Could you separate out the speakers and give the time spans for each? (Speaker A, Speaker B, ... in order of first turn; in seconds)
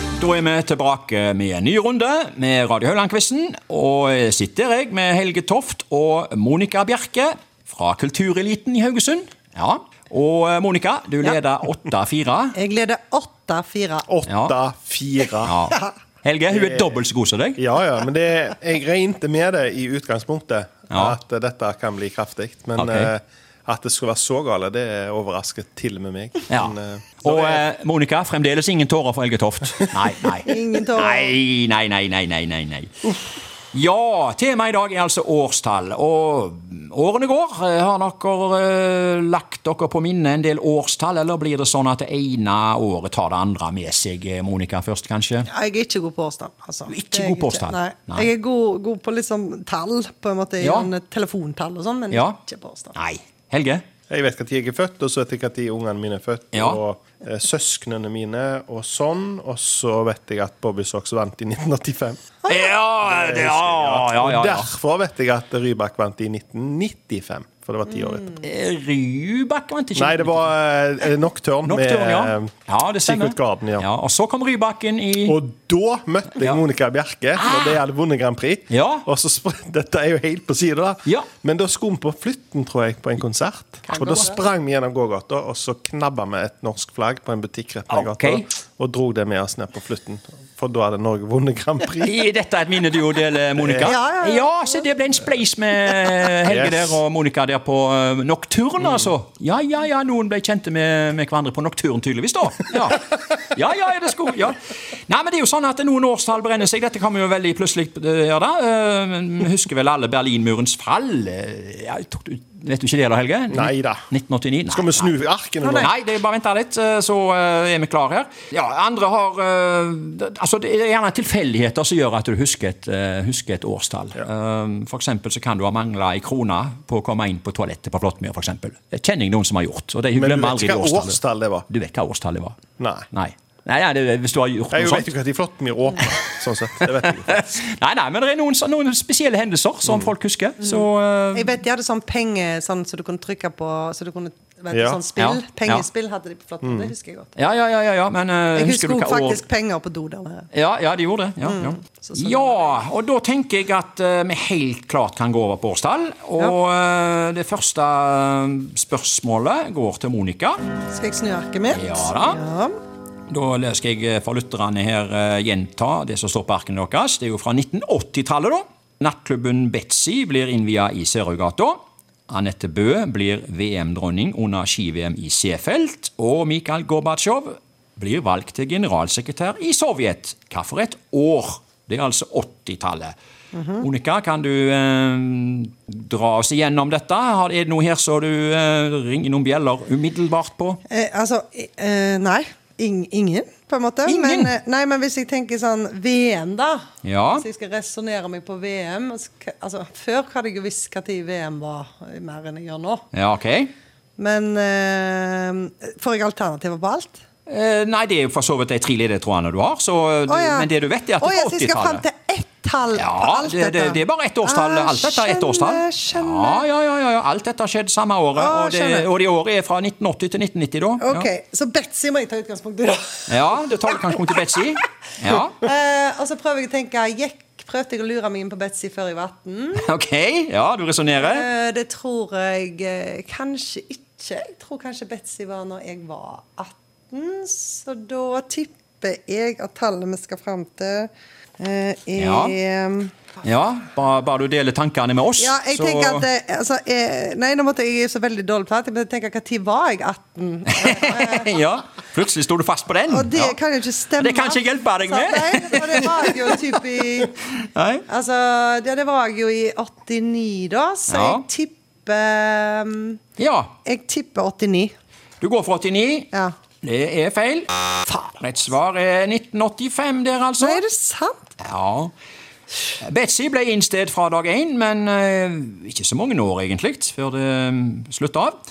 Speaker A: 0.2-12.6, 14.3-14.6, 15.4-17.6, 20.9-21.2, 22.8-23.1, 26.5-33.1, 33.7-45.5, 46.9-48.3, 50.6-50.9, 52.1-52.4, 53.0-53.8, 56.5-56.8, 62.5-64.7, 68.4-70.5, 71.6-75.4, 77.4-77.8, 78.7-79.1, 87.9-88.5, 92.0-115.1, 115.8-132.6, 133.1-135.1, 136.0-141.6, 145.2-145.9, 147.4-149.4, 150.5-160.6, 161.7-162.4, 163.3-183.2, 183.8-190.8, 194.1-194.5, 197.0-197.5, 203.1-203.7, 207.5-212.0, 213.0-221.3, 223.3-225.6, 229.8-231.5, 242.2-242.6, 243.4-246.3, 250.7-253.6, 254.2-256.6, 257.6-258.1, 261.1-261.4, 263.4-263.7, 265.4-266.3, 266.8-267.7, 268.4-270.8, 271.6-272.1, 273.0-278.5
Speaker B: 12.5-14.1, 30.4-31.4, 45.5-53.0, 83.9-84.4, 93.8-94.8, 115.6-115.9, 141.3-147.3, 148.5-150.5, 151.4-152.8, 160.8-162.7, 183.5-183.9, 190.9-196.8, 197.3-203.0, 204.2-207.2, 210.3-216.7, 218.3-219.1, 221.0-224.1, 225.6-229.9, 231.2-243.1, 245.4-251.6, 253.1-257.4, 258.1-263.2, 263.9-264.9, 268.1-268.4, 270.6-271.4
Speaker C: 14.1-15.6, 16.5-17.1, 17.6-27.7, 54.1-62.3, 63.0-68.4, 70.0-73.9, 75.2-92.2, 93.6-93.9, 96.5-97.0, 113.5-114.1, 114.7-115.9, 130.2-131.7, 132.8-133.1, 134.7-137.6, 139.8-140.1, 144.7-145.0, 146.6-146.9